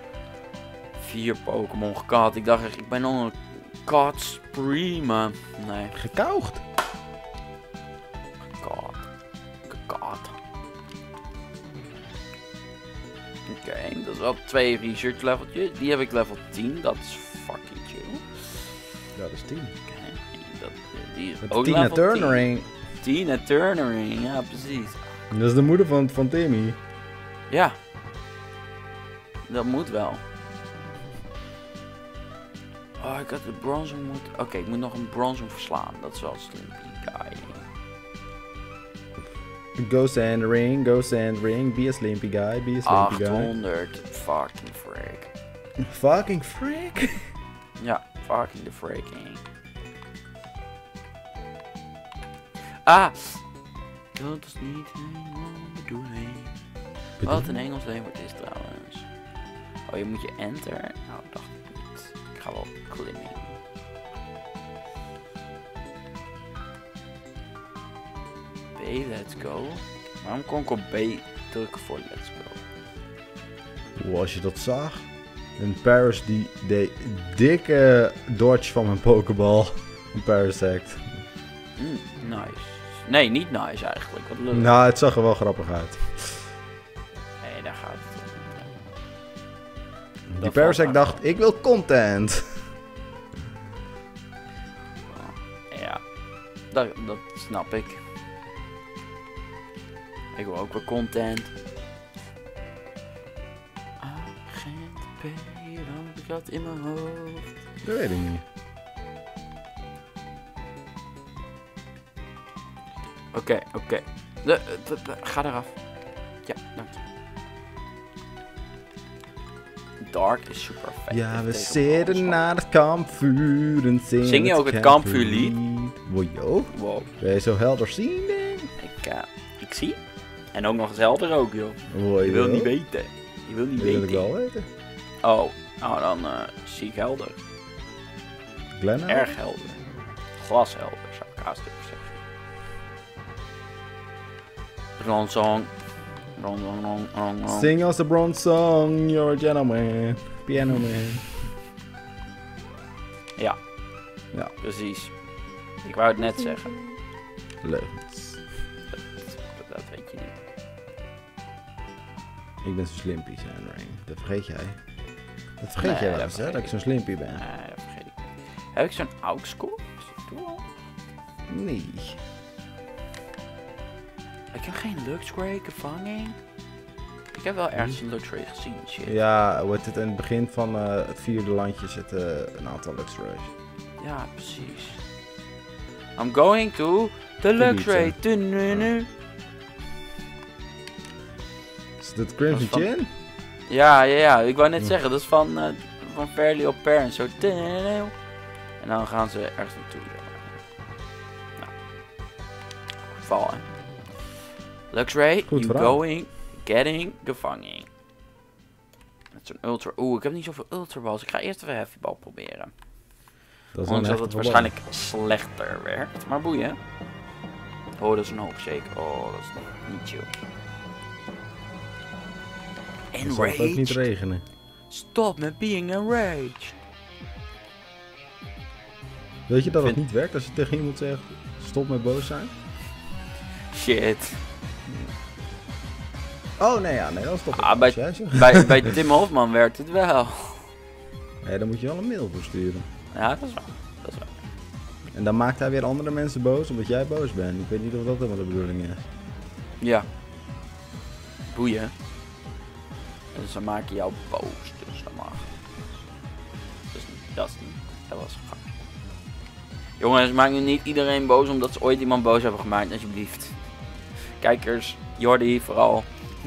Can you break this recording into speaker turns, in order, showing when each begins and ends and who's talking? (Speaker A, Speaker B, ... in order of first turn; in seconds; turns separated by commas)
Speaker A: 1.0-6.0, Speaker B: 5.9-6.6, Speaker A: 8.5-9.1, Speaker A: 9.7-10.3, Speaker A: 13.5-18.7, Speaker B: 19.2-19.7, Speaker A: 19.9-22.4, Speaker B: 21.4-22.7, Speaker A: 23.0-25.0, Speaker B: 25.3-26.8, Speaker A: 27.5-27.8, Speaker A: 29.5-30.2, Speaker A: 33.0-37.6, Speaker B: 39.8-43.5, Speaker A: 42.9-45.3, Speaker B: 45.8-47.3, Speaker A: 47.8-49.4, Speaker A: 52.9-53.4, Speaker A: 54.2-56.5, Speaker B: 57.2-57.6, Speaker A: 57.2-59.1, Speaker A: 59.9-63.6, Speaker A: 68.8-72.6, Speaker B: 74.0-81.1, Speaker A: 81.8-84.7, Speaker B: 84.5-86.5, Speaker A: 87.4-88.7, Speaker B: 90.3-92.6, Speaker A: 90.4-91.2, Speaker A: 95.1-96.0, Speaker A: 96.7-98.0, Speaker A: 100.4-101.5, Speaker A: 104.0-107.5, Speaker B: 107.8-108.4, Speaker A: 113.3-115.8, Speaker A: 116.5-117.0, Speaker A: 120.0-122.5, Speaker B: 121.1-128.7, Speaker A: 124.2-125.6, Speaker A: 126.7-127.1, Speaker A: 128.8-130.0, Speaker A: 130.5-134.3, Speaker B: 131.9-132.7, Speaker B: 133.8-134.7, Speaker A: 135.2-137.4, Speaker B: 138.8-139.3, Speaker A: 139.1-139.8, Speaker A: 140.4-142.2, Speaker A: 145.0-145.7, Speaker A: 146.4-147.7, Speaker B: 147.5-151.3, Speaker A: 154.6-155.1, Speaker A: 155.8-156.7, Speaker B: 156.2-156.9, Speaker B: 157.6-158.4, Speaker A: 158.9-160.3, Speaker B: 162.6-164.8, Speaker B: 165.6-167.4, Speaker A: 165.8-166.7, Speaker A: 167.4-170.7, Speaker B: 171.5-172.2, Speaker A: 174.5-176.4, Speaker A: 177.3-179.1, Speaker B: 179.1-183.5, Speaker A: 184.0-185.0, Speaker A: 186.2-189.1, Speaker B: 187.6-188.9, Speaker B: 192.0-193.1, Speaker A: 192.5-192.9, Speaker A: 193.7-198.1, Speaker A: 198.8-200.6, Speaker A: 203.1-203.6, Speaker A: 204.9-207.9, Speaker B: 205.5-206.0, Speaker A: 209.3-212.7, Speaker B: 213.7-214.7, Speaker A: 213.9-216.8, Speaker A: 218.0-220.3, Speaker A: 223.1-224.1, Speaker B: 223.2-224.4, Speaker A: 224.9-226.8, Speaker B: 229.5-232.5, Speaker A: 229.7-230.0, Speaker A: 233.7-234.4, Speaker B: 236.6-239.0, Speaker A: 237.6-240.7, Speaker B: 241.4-242.9, Speaker A: 243.1-244.3, Speaker B: 245.1-249.0, Speaker A: 249.8-250.1, Speaker A: 251.5-251.9, Speaker A: 253.3-255.5, Speaker A: 256.9-258.6, Speaker A: 260.0-263.6, Speaker A: 264.4-266.1